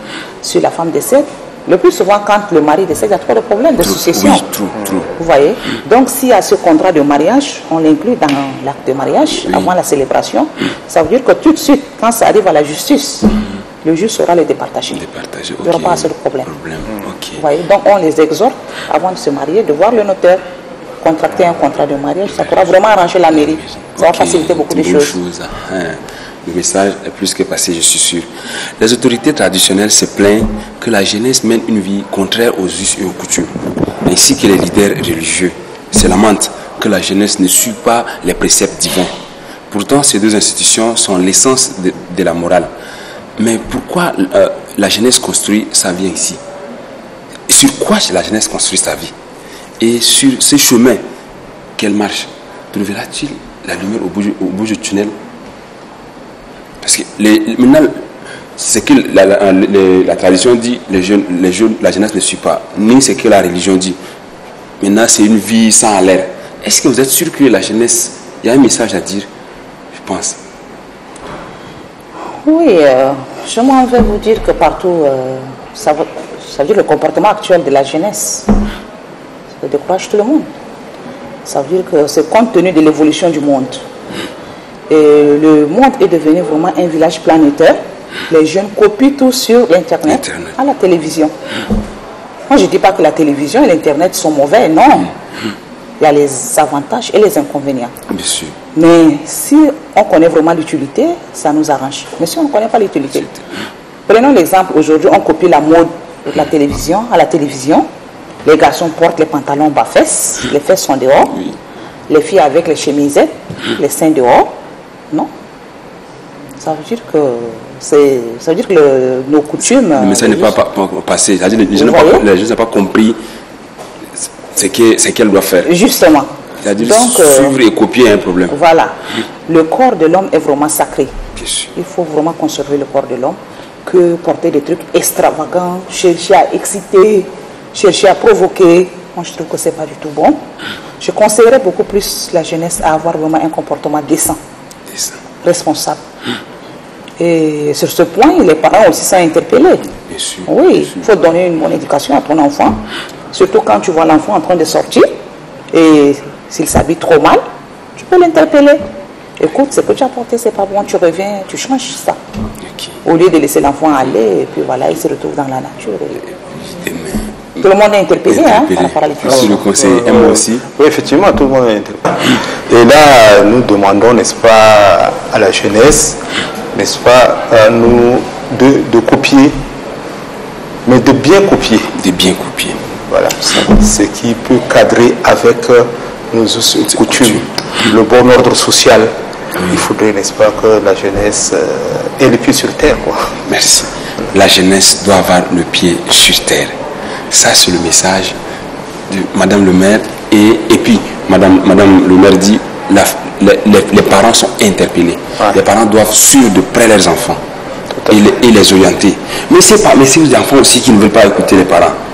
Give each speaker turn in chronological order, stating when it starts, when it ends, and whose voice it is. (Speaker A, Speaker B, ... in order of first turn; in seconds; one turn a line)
Speaker A: 0.4-4.4
Speaker B: 3.8-5.1
Speaker A: 5.2-15.0
Speaker B: 15.0-17.4
Speaker A: 15.6-16.5
Speaker A: 17.4-20.4
Speaker A: 21.0-25.1
Speaker B: 23.4-39.1
Speaker B: 39.7-42.7
Speaker B: 43.4-46.4
Speaker B: 47.5-49.1
Speaker B: 49.8-51.0
Speaker B: 51.8-55.1
Speaker B: 56.8-58.0
Speaker B: 58.5-64.0
Speaker B: 64.8-69.3
Speaker B: 69.9-70.4
Speaker A: 72.4-78.5
Speaker A: 79.6-80.5
Speaker A: 81.4-83.8
Speaker A: 84.9-91.3
Speaker B: 90.1-90.5
Speaker A: 92.5-95.1
Speaker A: 96.0-97.9
Speaker B: 98.1-98.5
Speaker A: 98.7-103.3
Speaker A: 104.1-107.9
Speaker A: 108.4-111.4
Speaker A: 112.1-114.5
Speaker A: 116.6-120.5
Speaker B: 119.9-123.2
Speaker A: 121.7-122.3
Speaker B: 124.5-125.7
Speaker A: 125.6-127.6
Speaker B: 126.6-128.6
Speaker A: 128.5-131.1
Speaker B: 131.3-131.7
Speaker A: 131.7-140.4
Speaker A: 141.0-144.4
Speaker B: 144.9-145.2
Speaker A: 145.4-146.0
Speaker A: 147.2-149.9
Speaker B: 150.1-151.1
Speaker A: 150.5-155.1
Speaker A: 155.7-157.4
Speaker A: 158.0-158.8
Speaker A: 159.4-162.2
Speaker A: 163.0-166.2
Speaker B: 166.5-167.6
Speaker A: 167.6-169.7
Speaker B: 168.3-170.6
Speaker C: 169.6-176.2
Speaker C: 176.7-179.6
Speaker C: 180.8-181.9
Speaker B: 181.9-182.8
Speaker C: 183.1-189.1
Speaker B: 187.0-187.4
Speaker C: 189.6-193.3
Speaker B: 193.5-196.8
Speaker B: 197.3-198.3
Speaker B: 199.1-207.4
Speaker B: 208.1-212.0